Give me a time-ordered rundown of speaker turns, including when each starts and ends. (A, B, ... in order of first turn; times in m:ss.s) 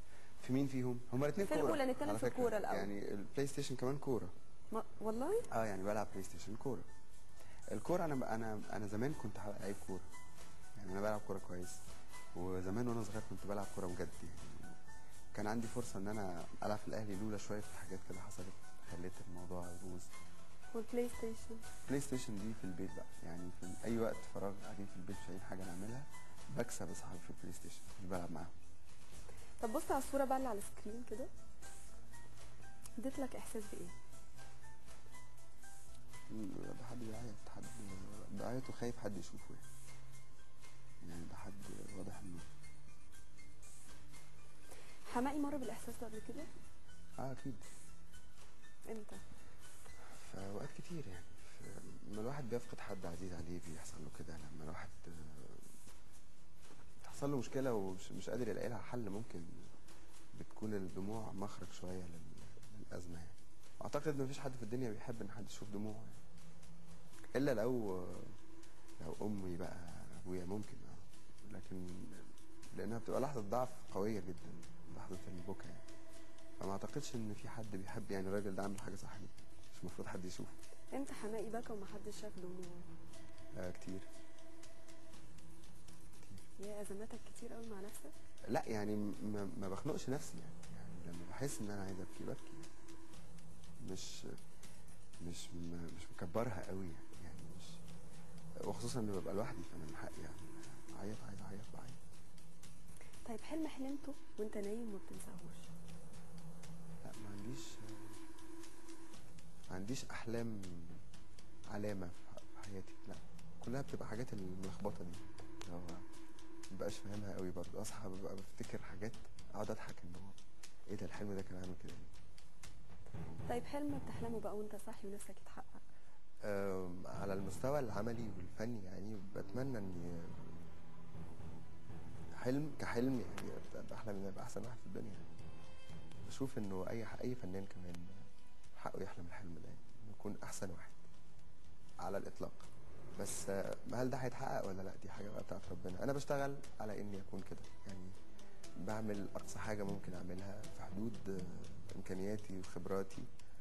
0:00.4-0:04.3 A
0:01.4-0:02.9 B
0:04.7-0:05.5 B
0:05.5-0:06.9 A
0:07.7-0:10.1 A
0:10.8-0:11.8 A
0:12.3-0:14.8 A
0:15.3-0:20.1 A
0:20.7-0:21.7 B
0:21.9-0:28.5 A
0:29.6-0:31.3 B
0:33.0-0:33.9 B
0:36.3-0:39.6 A
0:41.0-0:42.5 A
0:45.1-0:46.5 B
0:47.2-0:47.6 A
0:48.9-0:49.2 B
0:50.1-0:55.7 A
0:57.0-0:59.7 A
1:00.3-1:06.2 A
1:07.3-1:08.4 A
1:09.0-1:15.9 A
1:16.6-1:20.6 A
1:20.9-1:22.9 B
1:23.6-1:24.1 A
1:26.6-1:28.1 B
1:28.5-1:32.7 A
1:33.8-1:34.4 A
1:35.2-1:37.8 A
1:38.6-1:42.0 A
1:43.3-1:45.7 B
1:47.0-1:48.2 A
1:49.7-1:51.0 A
1:51.7-1:56.0 A
1:56.7-2:00.4 A
2:00.9-2:02.1 A
2:03.5-2:05.8 B
2:06.4-2:10.6 A
2:12.4-2:15.3 A
2:16.3-2:18.2 A
2:18.8-2:21.0 A
2:22.0-2:28.1 A
2:28.8-2:33.3 A